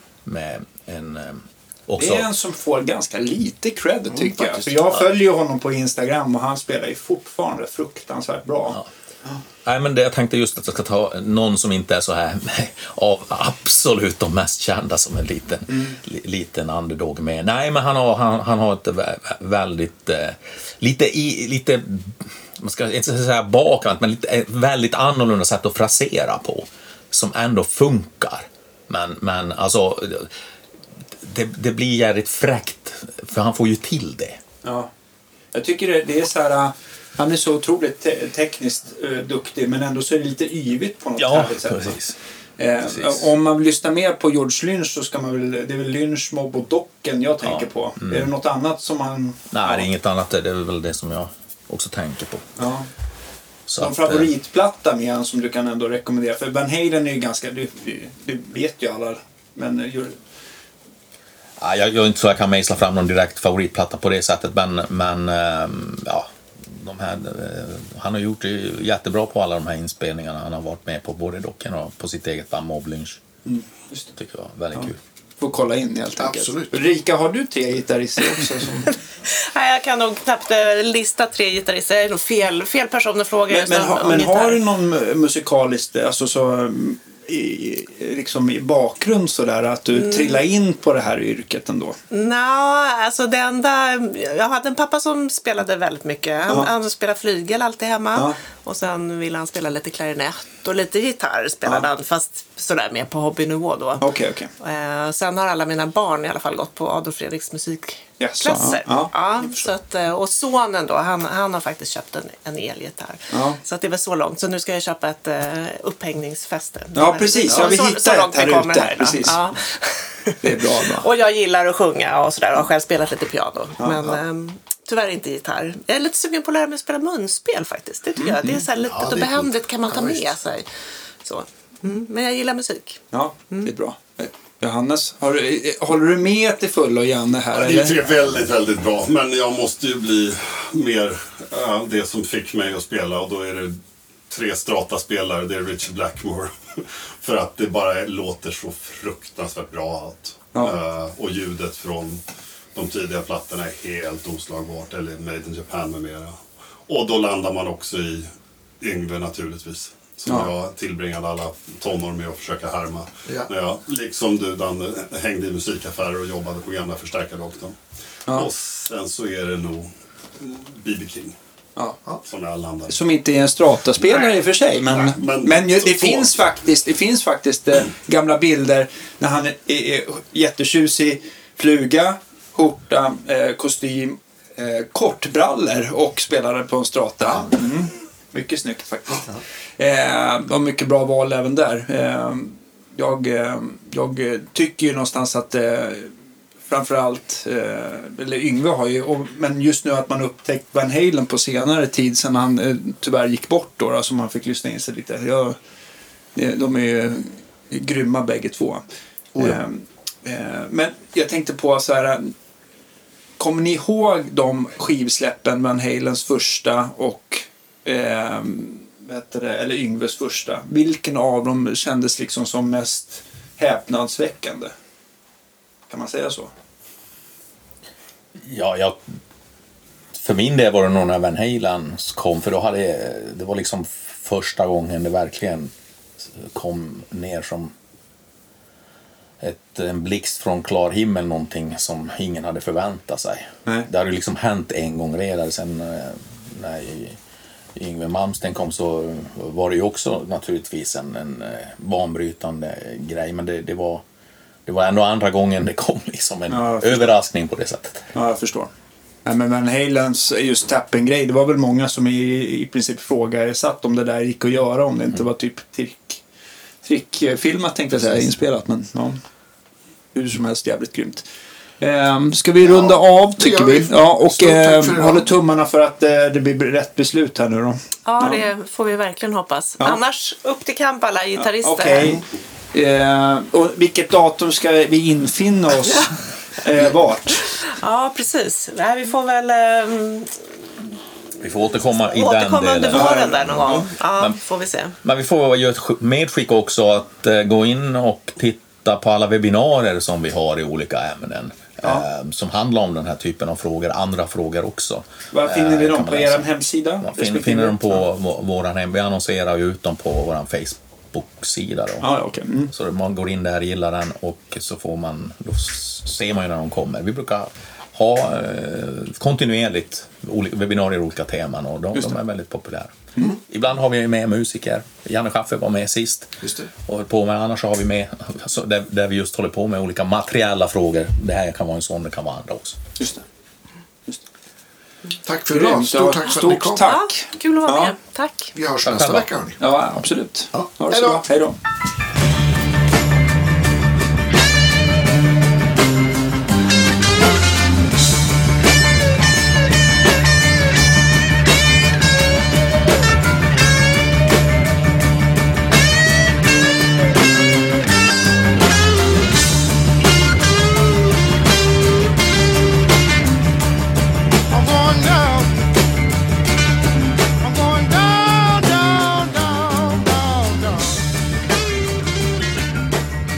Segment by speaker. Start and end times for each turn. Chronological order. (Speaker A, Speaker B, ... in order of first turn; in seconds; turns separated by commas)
Speaker A: 0.2-2.3, Speaker B: 2.0-9.4, Speaker C: 4.3-4.7, Speaker A: 9.6-30.3, Speaker B: 15.7-16.0, Speaker A: 31.2-34.4, Speaker B: 34.6-34.9, Speaker B: 35.5-42.0, Speaker A: 41.2-42.2, Speaker B: 42.6-49.9, Speaker A: 42.9-43.3, Speaker A: 47.4-48.3, Speaker A: 49.5-52.5, Speaker B: 52.6-52.9, Speaker A: 53.7-54.3, Speaker B: 53.8-60.2, Speaker A: 61.6-73.2, Speaker B: 73.5-74.1, Speaker A: 74.2-75.0, Speaker B: 74.7-79.0, Speaker C: 76.2-76.8, Speaker D: 79.3-84.6, Speaker B: 83.5-92.0, Speaker D: 90.0-90.4, Speaker D: 92.1-130.7, Speaker B: 104.0-104.5, Speaker B: 108.2-109.7, Speaker B: 113.3-113.6, Speaker B: 117.0-119.5, Speaker B: 120.4-121.1, Speaker B: 123.8-124.2, Speaker B: 128.2-128.7, Speaker C: 129.0-129.3, Speaker C: 129.9-130.2, Speaker D: 131.2-133.7, Speaker B: 133.1-138.0, Speaker E: 137.5-143.8, Speaker E: 144.3-158.3, Speaker E: 158.8-167.8, Speaker B: 160.3-160.5, Speaker E: 168.3-171.4, Speaker E: 172.2-173.0, Speaker B: 172.9-196.1, Speaker E: 174.8-176.4, Speaker B: 196.7-205.6, Speaker B: 206.3-208.8, Speaker C: 209.4-209.6, Speaker B: 209.4-212.3, Speaker B: 213.4-224.7, Speaker B: 225.9-226.5, Speaker A: 228.4-229.0, Speaker A: 230.1-237.7, Speaker A: 239.4-247.2, Speaker A: 247.8-254.0, Speaker A: 254.7-258.1, Speaker B: 256.5-257.1, Speaker B: 258.1-258.7, Speaker B: 259.2-266.2, Speaker B: 266.8-269.2, Speaker B: 270.1-271.3, Speaker B: 271.8-278.4, Speaker C: 272.6-275.3, Speaker D: 278.1-282.2, Speaker B: 281.4-287.6, Speaker D: 287.7-290.5, Speaker A: 291.4-294.4, Speaker D: 292.0-295.0, Speaker B: 292.9-293.7, Speaker A: 295.0-306.5, Speaker B: 305.3-308.0, Speaker A: 307.0-312.1, Speaker B: 312.0-312.7, Speaker A: 312.7-332.9, Speaker C: 326.4-326.7, Speaker B: 333.0-333.2, Speaker C: 335.2-336.9, Speaker B: 335.5-338.0, Speaker D: 336.8-338.5, Speaker C: 338.5-339.6, Speaker A: 338.8-339.3, Speaker B: 339.6-341.6, Speaker C: 340.5-341.2, Speaker B: 367.5-370.2